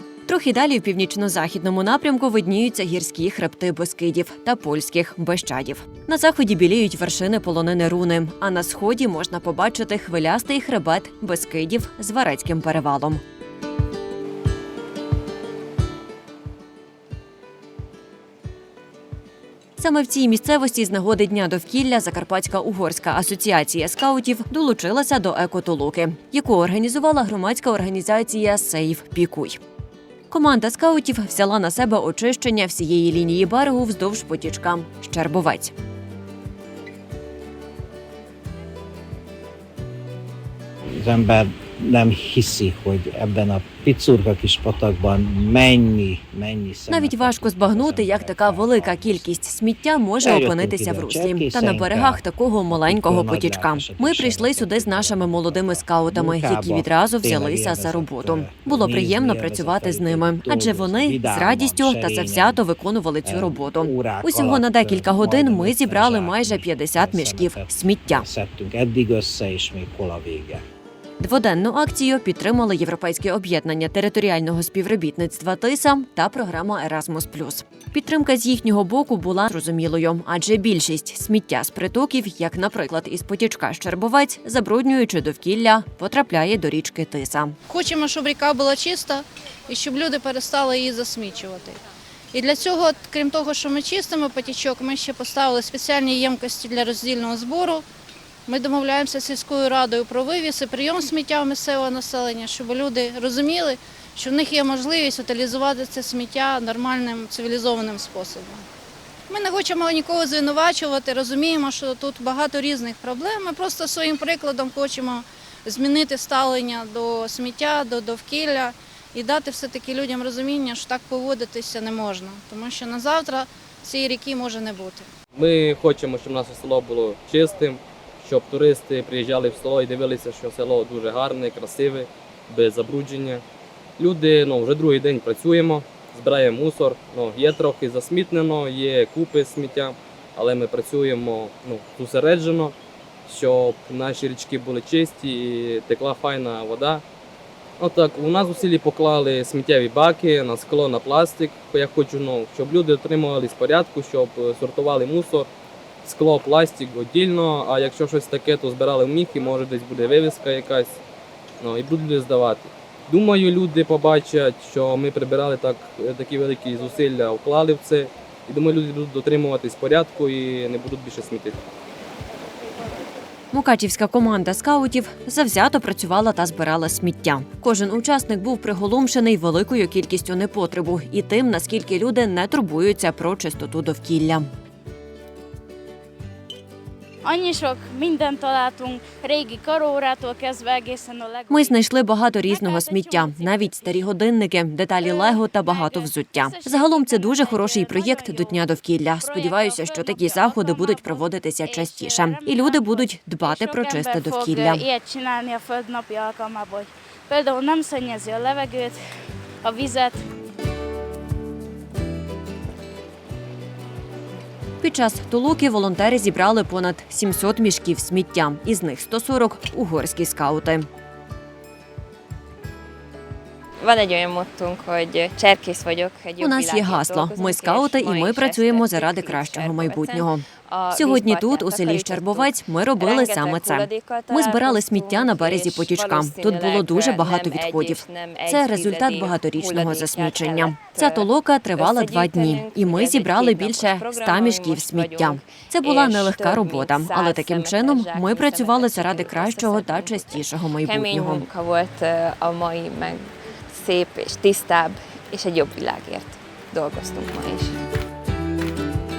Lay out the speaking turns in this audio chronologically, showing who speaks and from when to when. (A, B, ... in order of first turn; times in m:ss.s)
0:00.3-0:13.2 A
0:19.8-0:29.6 A
0:30.3-0:35.7 A
0:41.0-0:49.4 B
0:46.9-1:08.3 A
0:50.2-1:02.6 B
1:03.2-1:10.6 B
1:11.2-1:27.6 A
1:27.7-1:31.8 C
1:32.3-1:37.8 C
1:38.5-1:48.6 C
1:49.3-2:05.1 C
2:05.4-2:13.4 D
2:14.0-2:22.8 D
2:23.3-2:27.0 D
2:27.8-2:35.5 D
2:36.0-2:41.0 D
2:41.6-2:51.6 D
2:53.5-3:04.5 A
3:07.2-3:11.8 E
3:11.5-3:24.8 A
3:12.4-3:14.0 E
3:15.0-3:29.0 E
3:29.6-3:30.2 E
3:34.8-3:40.9 A
3:43.8-4:17.8 F
3:46.4-4:11.5 A